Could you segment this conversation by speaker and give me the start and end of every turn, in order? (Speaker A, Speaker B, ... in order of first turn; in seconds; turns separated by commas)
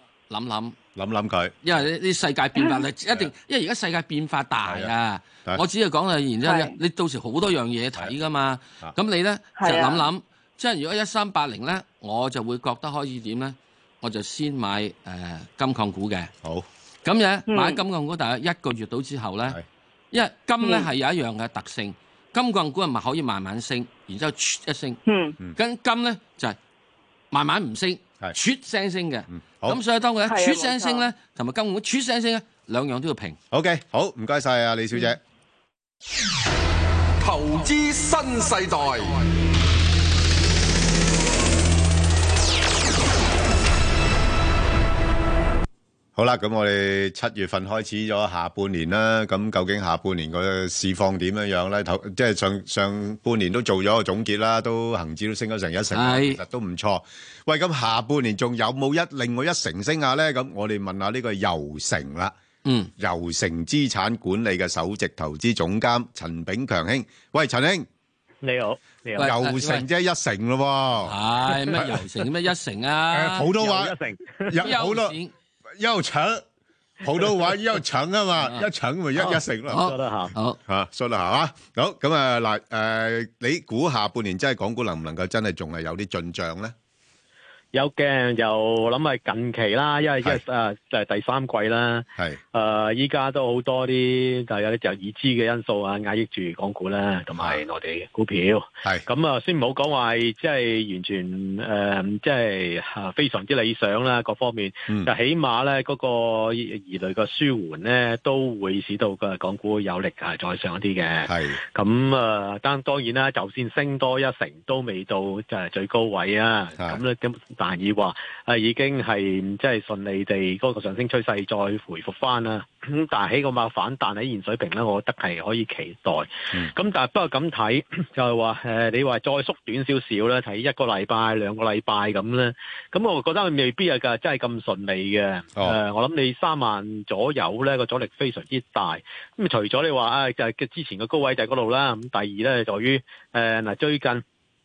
Speaker A: 0.3-0.8, Speaker B: 0.9-1.6, Speaker A: 1.6-16.3, Speaker B: 4.6-4.9, Speaker C: 6.4-6.8, Speaker C: 9.6-10.1, Speaker A: 17.0-19.6, Speaker C: 17.5-17.8, Speaker A: 20.1-25.0, Speaker C: 20.6-20.9, Speaker C: 25.1-25.4, Speaker A: 25.6-26.6, Speaker A: 27.3-33.4, Speaker B: 29.3-29.8, Speaker C: 30.3-31.1, Speaker B: 33.5-35.2, Speaker D: 37.2-39.3, Speaker B: 46.1-62.3, Speaker A: 55.9-56.4, Speaker A: 62.6-62.9, Speaker B: 63.0-67.9, Speaker E: 68.4-69.3, Speaker A: 69.2-69.8, Speaker B: 69.2-71.2, Speaker A: 71.0-73.5, Speaker B: 71.7-72.0, Speaker B: 73.1-75.2, Speaker E: 73.5-74.7, Speaker A: 74.6-75.3, Speaker B: 75.8-76.4, Speaker B: 77.0-79.9, Speaker A: 78.4-78.7, Speaker E: 79.2-80.3, Speaker A: 79.7-80.6, Speaker B: 80.7-86.7, Speaker E: 87.7-144.2, Speaker B: 97.3-97.6, Speaker B: 111.2-111.6